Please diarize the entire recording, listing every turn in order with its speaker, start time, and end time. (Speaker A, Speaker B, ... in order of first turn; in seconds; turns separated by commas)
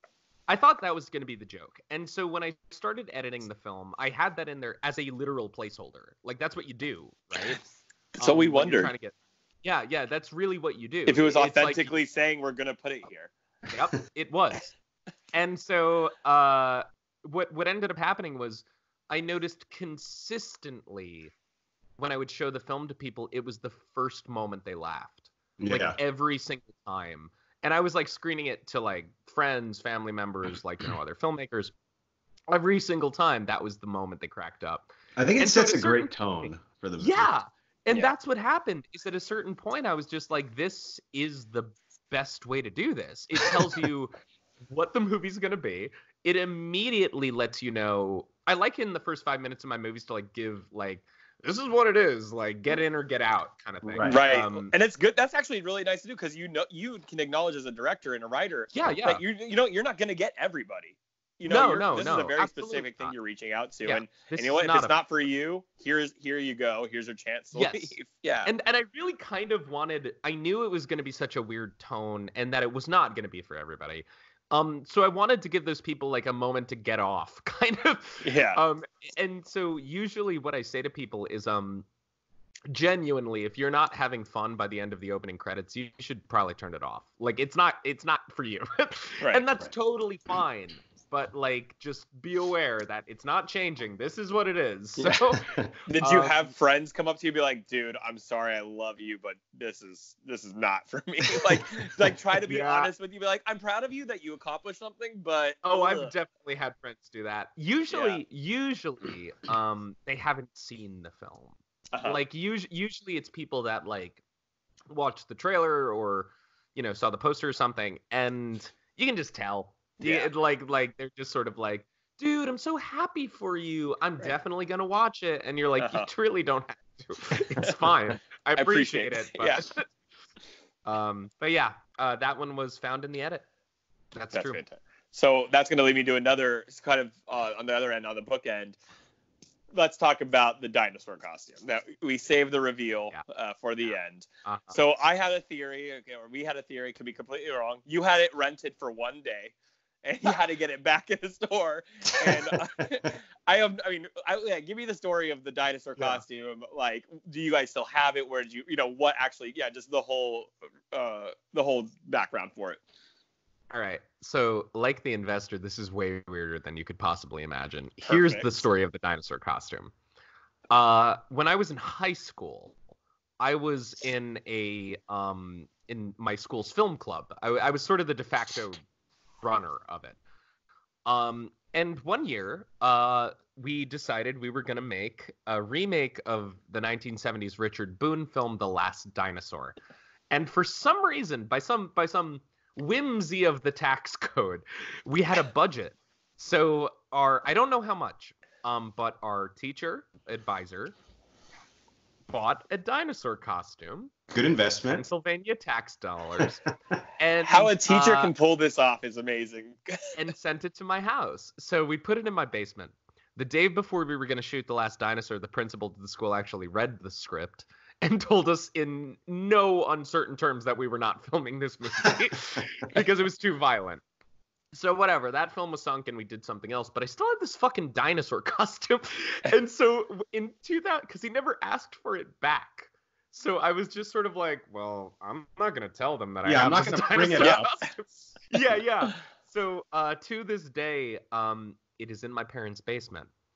Speaker A: 0.5-7.6, Speaker B: 8.2-8.9, Speaker A: 8.2-12.0, Speaker B: 11.1-13.3, Speaker A: 13.7-14.8, Speaker A: 15.3-21.3, Speaker A: 22.0-31.7, Speaker C: 25.6-26.0, Speaker A: 32.5-36.5, Speaker C: 35.2-37.3, Speaker A: 37.0-44.1, Speaker A: 44.7-54.7, Speaker C: 53.8-54.2, Speaker B: 54.0-68.5, Speaker A: 58.7-59.2, Speaker A: 61.5-63.1, Speaker A: 63.8-65.0, Speaker A: 67.5-81.9, Speaker B: 78.2-78.6, Speaker A: 82.7-96.5, Speaker C: 95.0-95.7, Speaker B: 95.9-106.1, Speaker A: 102.5-102.9, Speaker A: 105.6-114.2, Speaker B: 107.9-108.2, Speaker B: 111.9-112.2, Speaker A: 114.9-129.9, Speaker B: 120.0-120.3, Speaker B: 125.8-126.1, Speaker B: 127.6-127.9, Speaker B: 128.6-129.6, Speaker A: 130.9-133.4, Speaker A: 134.2-134.6, Speaker B: 134.3-138.8, Speaker B: 139.7-149.5, Speaker A: 144.4-144.8, Speaker B: 150.0-162.8, Speaker C: 152.2-152.8, Speaker A: 156.0-156.2, Speaker A: 163.7-169.9, Speaker B: 168.1-168.5, Speaker A: 170.7-172.8, Speaker A: 173.4-178.8, Speaker A: 179.4-180.2, Speaker A: 181.1-189.8, Speaker A: 190.3-201.0, Speaker A: 202.3-204.1, Speaker C: 204.3-205.1, Speaker A: 204.9-206.6, Speaker A: 207.2-208.3, Speaker B: 207.5-210.2, Speaker A: 210.2-224.0, Speaker A: 224.7-243.3, Speaker C: 236.4-237.7, Speaker B: 237.4-237.7